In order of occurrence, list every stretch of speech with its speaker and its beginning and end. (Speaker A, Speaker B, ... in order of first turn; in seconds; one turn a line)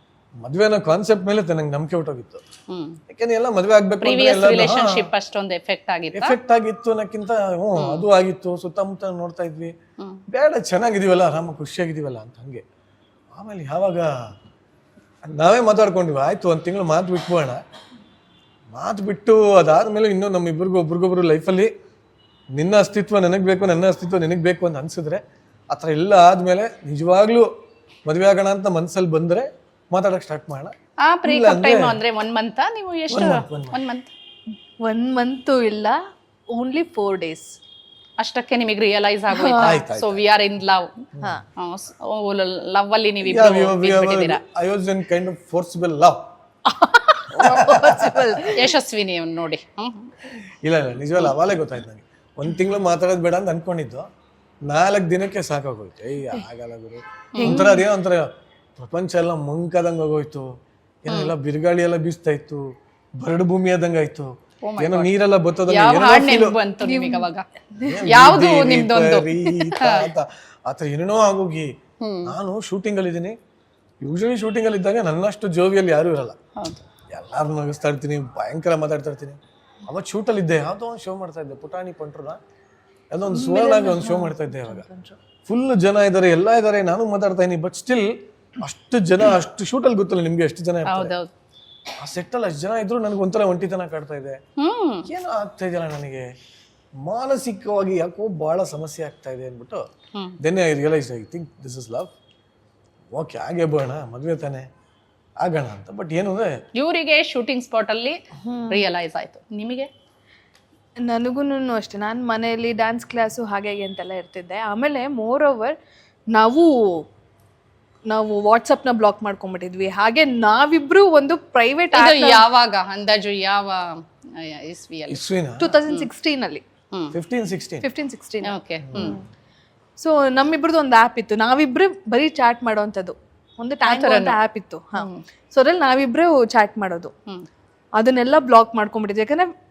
Speaker A: 0.4-2.4
Speaker B: 2.7-3.0
Speaker A: 3.1-5.1
Speaker B: 4.0-6.4
Speaker A: 6.1-9.7
Speaker B: 7.8-8.0
Speaker A: 10.3-12.6
Speaker A: 13.3-14.1
Speaker A: 15.3-17.6
Speaker A: 18.7-21.7
Speaker A: 22.6-27.5
Speaker A: 28.1-32.0
Speaker B: 31.0-34.1
Speaker A: 33.1-33.8
Speaker C: 34.8-36.0
Speaker C: 36.5-37.6
Speaker B: 38.2-41.0
Speaker C: 39.3-39.8
Speaker A: 39.6-40.2
Speaker B: 41.6-44.4
Speaker A: 43.2-46.2
Speaker C: 46.7-48.7
Speaker A: 47.3-48.5
Speaker B: 48.6-50.1
Speaker A: 50.5-54.0
Speaker A: 54.7-60.5
Speaker C: 57.4-57.9
Speaker A: 61.0-62.6
Speaker A: 63.2-66.5
Speaker B: 64.7-65.1
Speaker B: 65.7-67.5
Speaker C: 66.8-68.0
Speaker A: 67.8-71.7
Speaker B: 68.1-69.3
Speaker A: 72.2-73.4
Speaker A: 74.0-76.4
Speaker A: 77.1-82.4
Speaker A: 83.1-84.8
Speaker C: 83.3-85.2
Speaker A: 85.5-91.2
Speaker B: 90.9-91.3
Speaker A: 92.0-94.4
Speaker B: 94.6-95.0
Speaker A: 95.1-96.3
Speaker A: 97.1-99.8
Speaker A: 100.4-102.1
Speaker A: 103.1-104.7
Speaker A: 105.4-106.6
Speaker B: 106.8-108.2
Speaker C: 108.4-108.9
Speaker B: 108.9-109.9
Speaker C: 111.0-115.8
Speaker C: 116.3-117.0
Speaker C: 118.1-122.5
Speaker B: 122.0-125.2
Speaker A: 125.1-125.8
Speaker C: 125.6-126.6
Speaker A: 127.1-127.8
Speaker C: 127.8-129.2
Speaker B: 128.6-129.1
Speaker C: 130.0-137.1
Speaker B: 134.1-134.4
Speaker C: 138.0-139.5